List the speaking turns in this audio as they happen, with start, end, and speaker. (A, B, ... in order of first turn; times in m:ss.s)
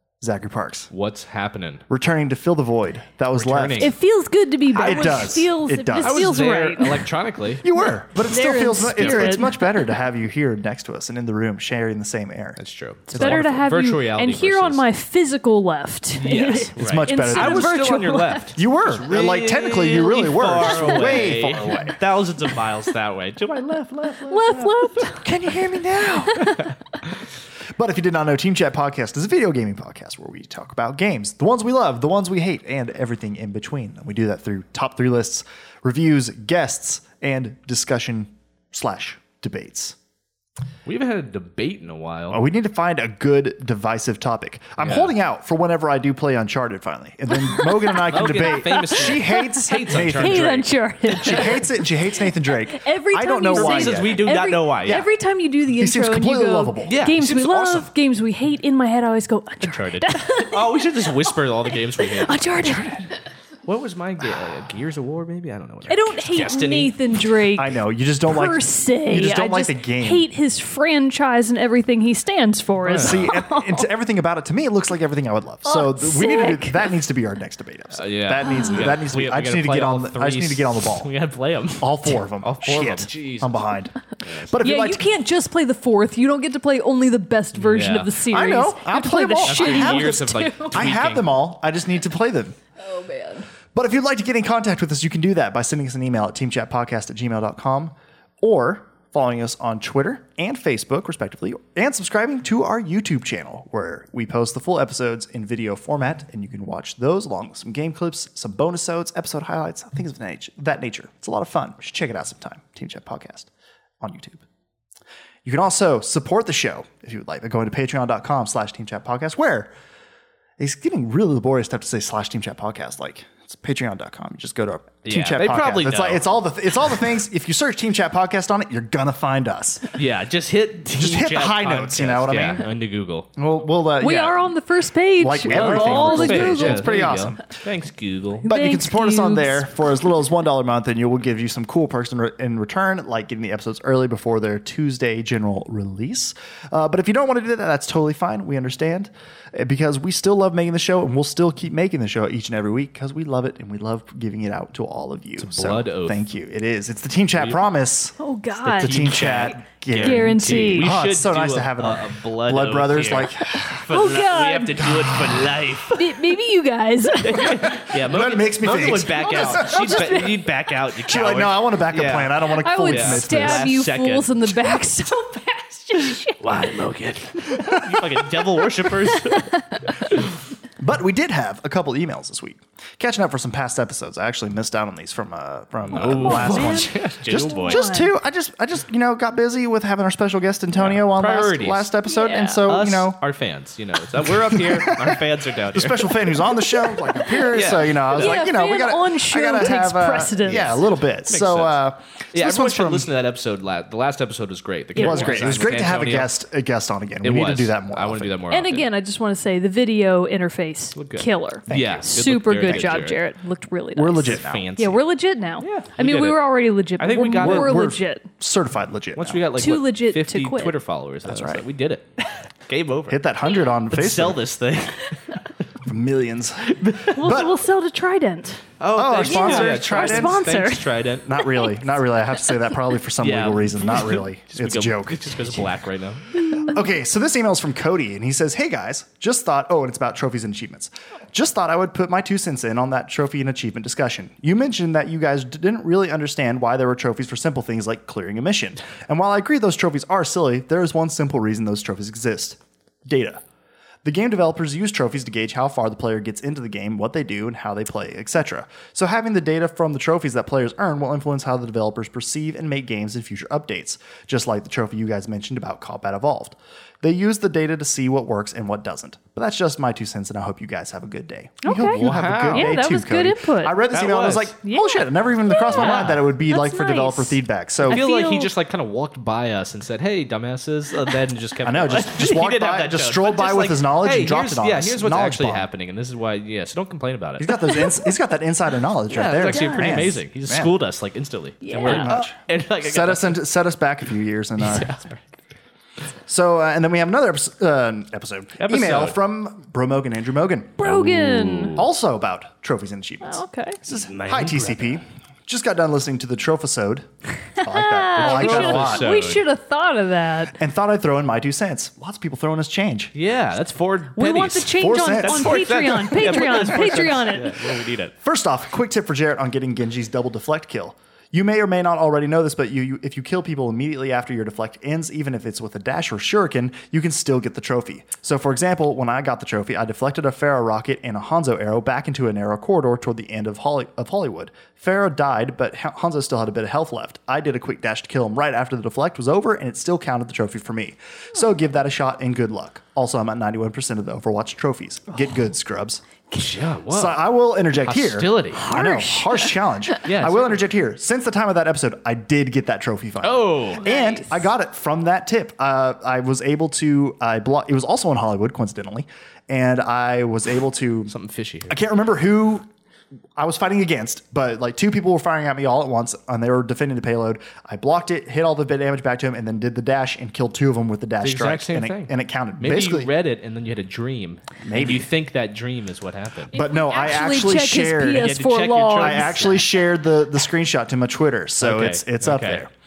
0:00.2-0:00.9 A
0:00.9-0:01.8 B
0:01.9-0:03.9 A
0:03.4-0:04.0 B
0:03.8-0:07.1 C
0:04.7-0:07.7 B
0:04.8-0:06.2 A
0:07.6-0:13.6 A
0:07.8-0:09.6 C
0:09.0-0:09.5 B
0:12.6-0:14.8 B
0:13.1-0:18.6 C
0:16.2-0:24.9 B
0:16.8-0:17.8 A
0:18.6-0:22.0 A
0:20.6-0:22.0 C
0:24.3-0:25.3 C
0:25.1-0:26.7 A
0:26.2-0:26.7 C
0:27.7-0:40.0 A
0:40.8-0:42.4 B
0:42.3-0:50.6 A
0:44.8-0:45.1 B
0:47.5-1:00.8 C
0:47.9-0:50.7 B
0:51.1-0:54.3 A
0:53.5-0:55.1 B
0:55.8-0:57.0 A
0:56.8-0:57.9 B
0:59.6-1:03.0 B
1:01.7-1:03.1 C
1:03.6-1:07.3 B
1:05.9-1:07.7 C
1:07.6-1:10.3 A
1:08.3-1:13.9 C
1:12.8-1:13.3 B
1:12.9-1:21.1 A
1:15.6-1:16.9 C
1:18.0-1:23.6 B
1:18.4-1:18.9 C
1:21.8-1:25.1 A
1:24.2-1:24.6 B
1:24.6-1:30.9 C
1:27.6-1:28.1 B
1:28.3-1:32.6 A
1:29.4-1:31.3 B
1:32.8-1:33.5 C
1:33.8-1:54.4 A
1:55.4-1:59.7 A
2:00.6-2:10.0 A
2:05.0-2:06.3 B
2:10.0-2:13.3 B
2:10.9-2:12.7 A
2:13.4-2:14.5 A
2:14.0-2:17.1 C
2:15.2-2:17.6 A
2:15.4-2:18.5 B
2:18.4-2:19.7 C
2:18.4-2:43.8 A
2:35.4-2:36.2 B
2:37.4-2:37.6 B
2:38.2-2:39.3 C
2:38.6-2:46.0 B
2:40.0-2:40.9 C
2:43.9-2:45.1 C
2:44.9-2:45.7 A
2:45.9-2:47.8 C
2:47.2-2:54.8 B
2:47.4-2:50.3 A
2:48.9-2:50.5 C
2:51.1-2:53.7 A
2:52.5-2:56.7 C
2:56.0-3:00.3 B
2:57.5-2:58.3 A
2:58.8-3:00.0 C
3:00.8-3:13.2 A
3:05.8-3:07.8 B
3:06.0-3:08.1 C
3:10.8-3:11.9 B
3:12.1-3:12.7 C
3:12.7-3:16.2 B
3:14.2-3:23.1 A
3:16.8-3:20.8 C
3:17.5-3:18.1 B
3:20.5-3:21.8 B
3:22.3-3:26.3 B
3:25.0-3:25.6 C
3:25.0-3:28.4 A
3:27.2-3:28.9 B
3:28.5-3:38.3 C
3:31.0-3:33.2 B
3:31.7-3:32.1 A
3:34.0-3:34.7 A
3:34.3-3:35.0 B
3:35.6-3:37.8 B
3:37.4-3:39.4 A
3:39.2-3:42.1 B
3:39.6-3:40.8 C
3:41.2-3:41.6 A
3:42.7-3:43.2 B
3:43.1-3:44.5 A
3:43.9-3:45.4 B
3:45.8-3:47.6 A
3:46.7-3:47.1 B
3:47.1-3:48.6 C
3:48.8-3:51.4 B
3:48.9-3:50.5 A
3:49.2-3:51.8 C
3:51.2-3:55.7 A
3:53.2-3:56.7 B
3:56.4-3:56.7 C
3:56.5-4:13.4 A
4:14.0-4:38.0 A
4:31.6-4:33.8 C
4:32.0-4:32.8 B
4:33.9-4:34.5 B
4:34.6-4:38.5 C
4:35.6-4:36.2 B
4:37.8-4:47.6 B
4:41.6-4:45.7 A
4:47.4-4:50.7 A
4:49.1-4:53.4 B
4:49.5-4:50.1 C
4:51.6-4:52.1 C
4:51.8-4:54.9 A
4:54.6-4:55.2 B
4:56.3-5:00.9 A
4:58.6-4:59.2 B
5:00.8-5:01.8 C
5:00.8-5:01.9 B
5:01.7-5:07.1 A
5:03.2-5:03.8 C
5:03.9-5:05.0 B
5:07.6-5:10.6 C
5:07.6-5:09.1 A
5:08.2-5:09.4 B
5:10.6-5:13.1 A
5:13.1-5:18.1 B
5:14.2-5:17.6 C
5:14.7-5:17.1 A
5:18.2-5:46.0 A
5:46.3-5:47.2 B
5:46.9-6:01.1 A
5:47.7-5:48.6 B
5:48.5-5:50.0 C
5:50.0-5:50.6 B
5:53.2-5:53.8 B
5:53.8-5:54.5 C
6:01.1-6:01.8 B
6:01.7-6:02.7 A
6:03.4-6:13.1 A
6:11.2-6:16.5 B
6:14.6-6:15.1 A
6:16.5-6:18.4 A
6:16.5-6:19.7 C
6:18.1-6:19.7 B
6:19.0-6:22.7 A
6:21.6-6:22.6 B